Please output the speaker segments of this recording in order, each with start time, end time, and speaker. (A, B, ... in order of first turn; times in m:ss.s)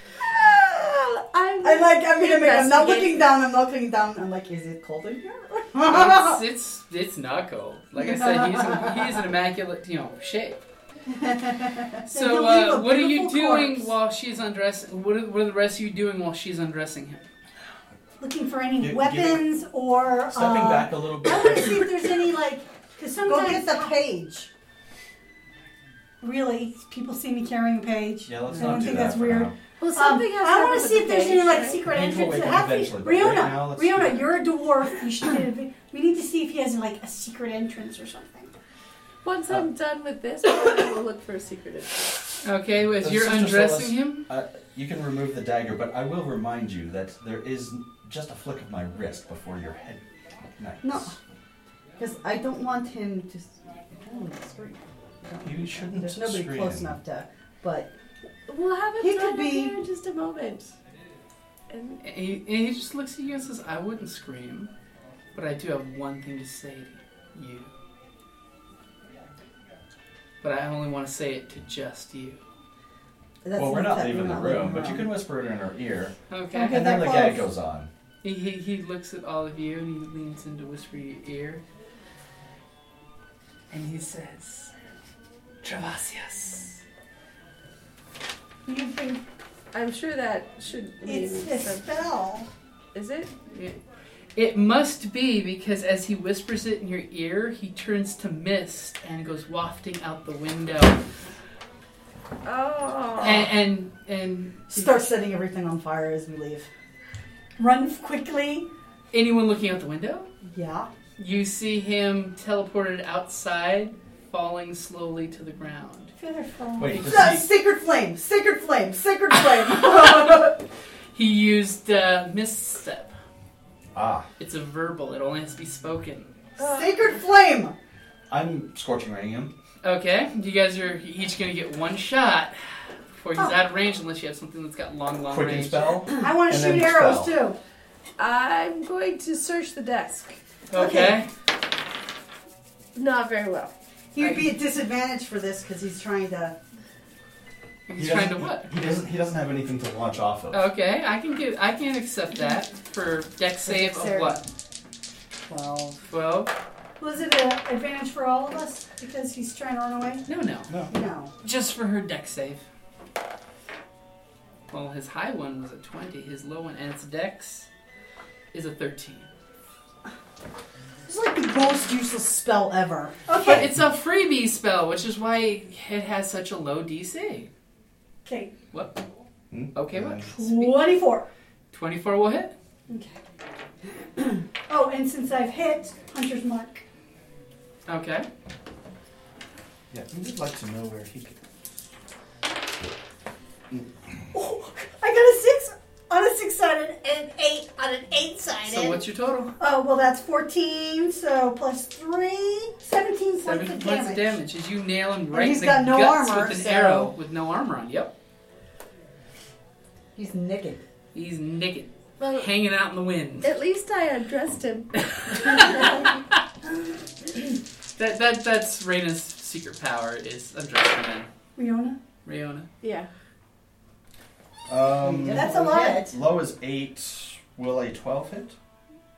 0:00.9-0:01.5 A
0:01.5-0:03.3 B
0:01.6-0:06.4 C
0:05.8-0:10.6 D
0:08.0-0:08.9 C
0:11.1-0:12.0 C
0:12.0-0:13.9 A
0:12.1-0:17.3 D
0:18.2-0:24.0 A
0:18.8-0:19.4 E
0:20.3-0:22.1 E
0:23.2-0:24.5 C
0:26.2-0:38.5 A
0:28.3-0:29.6 E
0:29.8-0:31.9 B
0:31.9-0:34.3 E
0:39.2-0:42.2 B
0:42.4-0:44.3 D
0:43.0-0:51.2 E
0:50.8-0:51.2 C
0:52.0-0:57.9 C
0:55.4-0:57.0 E
0:58.5-1:00.7 B
0:59.0-0:59.8 C
1:01.7-1:02.0 B
1:02.0-1:04.7 D
1:05.4-1:07.7 D
1:10.4-1:12.4 D
1:13.4-1:15.1 C
1:13.5-1:16.2 E
1:16.3-1:16.8 D
1:16.6-1:17.4 A
1:16.7-1:17.9 E
1:16.7-1:17.5 C
1:18.2-1:21.6 D
1:23.7-1:24.7 D
1:25.6-1:26.8 D
1:28.7-1:29.2 A
1:29.7-1:31.9 B
1:31.0-1:32.5 A
1:32.9-1:33.3 B
1:33.5-1:33.8 D
1:34.4-1:41.0 D
1:42.4-1:43.5 B
1:43.2-1:45.0 D
1:44.7-1:46.7 C
1:47.6-1:48.7 A
1:49.1-1:50.3 D
1:50.5-1:50.9 C
1:51.2-1:56.1 D
1:56.2-1:57.3 A
1:56.8-1:57.5 E
1:57.0-2:00.6 C
2:01.1-2:03.2 D
2:03.9-2:04.3 E
2:04.4-2:06.4 D
2:06.6-2:07.2 B
2:06.6-2:07.8 C
2:08.3-2:09.5 E
2:09.8-2:16.0 D
2:15.3-2:17.4 E
2:16.1-2:17.6 A
2:18.2-2:20.4 B
2:20.7-2:21.3 D
2:23.0-2:23.7 B
2:24.1-2:26.6 C
2:24.2-2:24.5 D
2:27.9-2:28.7 D
2:28.0-2:30.6 E
2:30.5-2:34.4 D
2:33.6-2:34.4 C
2:35.5-2:36.0 C
2:36.1-2:36.5 D
2:37.0-2:40.2 A
2:40.3-2:40.7 D
2:40.7-2:40.9 E
2:40.9-2:41.3 C
2:41.4-2:42.6 D
2:44.7-2:47.7 D
2:48.5-2:49.3 D
2:51.1-2:53.2 C
2:53.3-2:53.7 A
2:53.4-2:57.5 D
2:58.2-2:58.5 A
2:58.7-2:59.0 D
2:59.5-3:00.3 E
2:59.7-3:00.8 D
3:00.3-3:01.3 A
3:01.7-3:02.5 D
3:02.9-3:03.2 A
3:04.3-3:06.8 A
3:07.9-3:08.3 D
3:09.9-3:11.4 E
3:13.7-3:14.3 E
3:14.3-3:19.0 A
3:18.6-3:19.5 D
3:19.6-3:24.4 A
3:23.4-3:28.1 D
3:25.3-3:27.1 C
3:30.2-3:30.8 C
3:31.1-3:33.5 D
3:32.2-3:32.5 B
3:33.4-3:36.1 B
3:35.3-3:35.9 D
3:38.0-3:41.3 D
3:41.6-3:42.0 A
3:42.2-3:42.7 D
3:42.8-3:43.1 B
3:44.7-3:48.6 E
3:45.0-3:46.1 C
3:45.3-3:46.1 A